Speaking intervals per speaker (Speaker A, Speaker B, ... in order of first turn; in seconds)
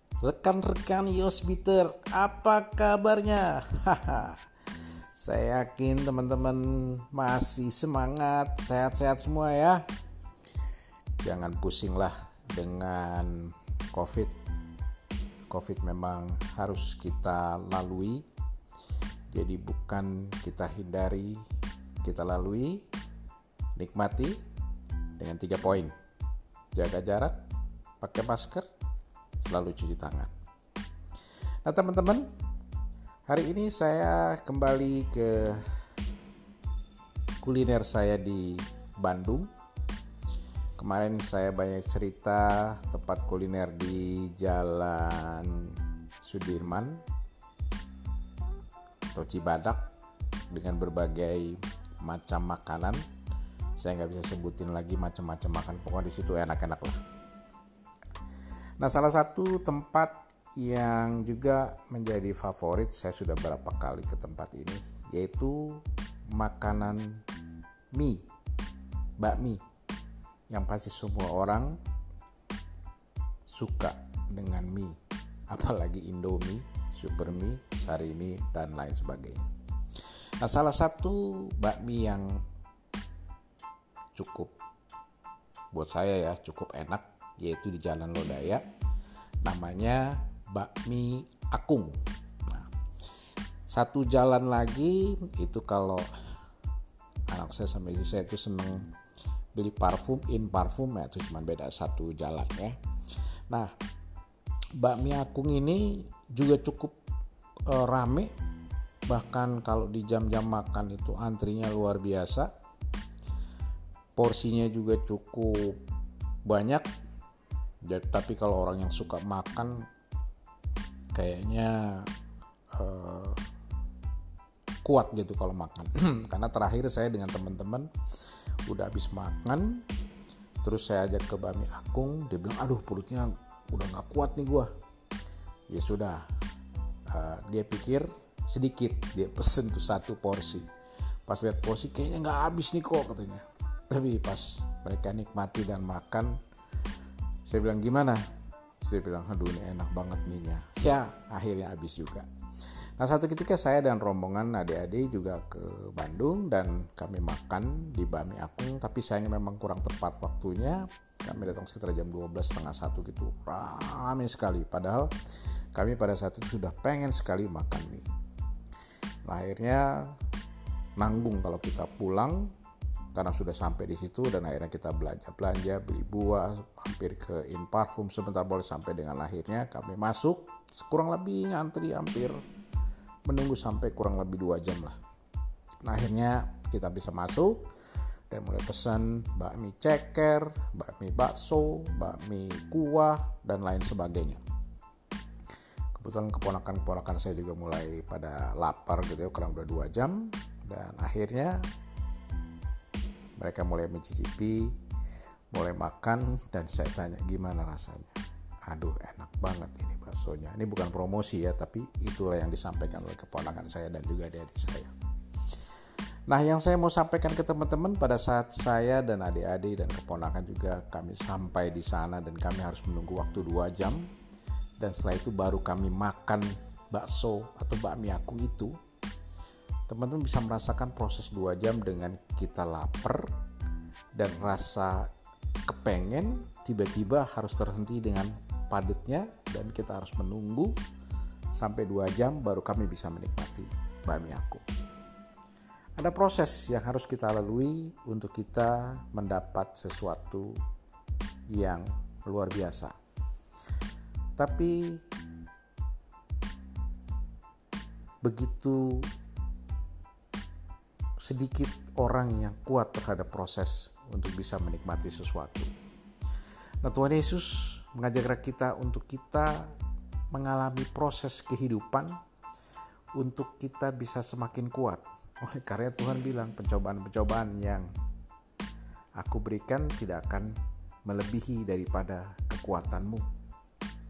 Speaker A: 0.2-4.4, 5.2-9.8, 11.2-14.3, 15.5-18.2, 19.3-21.4, 22.0-22.9, 23.8-24.4, 25.2-25.9, 26.7-27.4, 28.0-28.7, 29.4-30.3, 31.6-32.3, 33.3-35.6, 37.4-39.5, 40.8-47.0, 49.1-49.9, 50.5-53.0, 53.8-57.0, 58.8-67.2, 67.9-68.3, 69.2-69.6, 70.5-71.8, 73.5-75.0, 75.5-79.4, 80.4-82.4, 84.1-84.5, 85.7-88.6, 89.4-92.7, 93.7-96.1, 97.3-98.9, 99.5-102.8, 103.5-103.7, 104.8-107.0, 107.7-108.3, 109.1-112.5, 114.2-115.8, 116.4-116.9, 117.8-119.9, 121.1-122.1, 122.7-123.4, 124.8-127.9, 128.7-129.8, 130.6-134.7, 135.7-136.3, 137.1-140.7, 141.2-146.4, 147.4-148.2, 148.8-152.3, 153.0-165.1, 165.7-168.1, 169.2-170.2, 170.9-172.5, 173.1-182.4, 183.2-185.0, 185.8-187.7, 188.3-194.4, 195.9-201.7, 203.3-204.8, 205.5-214.9, 216.3-224.1, 224.8-228.7, 229.9-233.3, 234.1-235.1, 235.7-240.8, 241.5-244.6, 246.0-250.6, 251.5-252.9, 254.4-255.0, 258.2-259.1, 261.2-265.7, 266.8-269.7, 270.3-272.2, 273.1-277.9, 279.2-283.3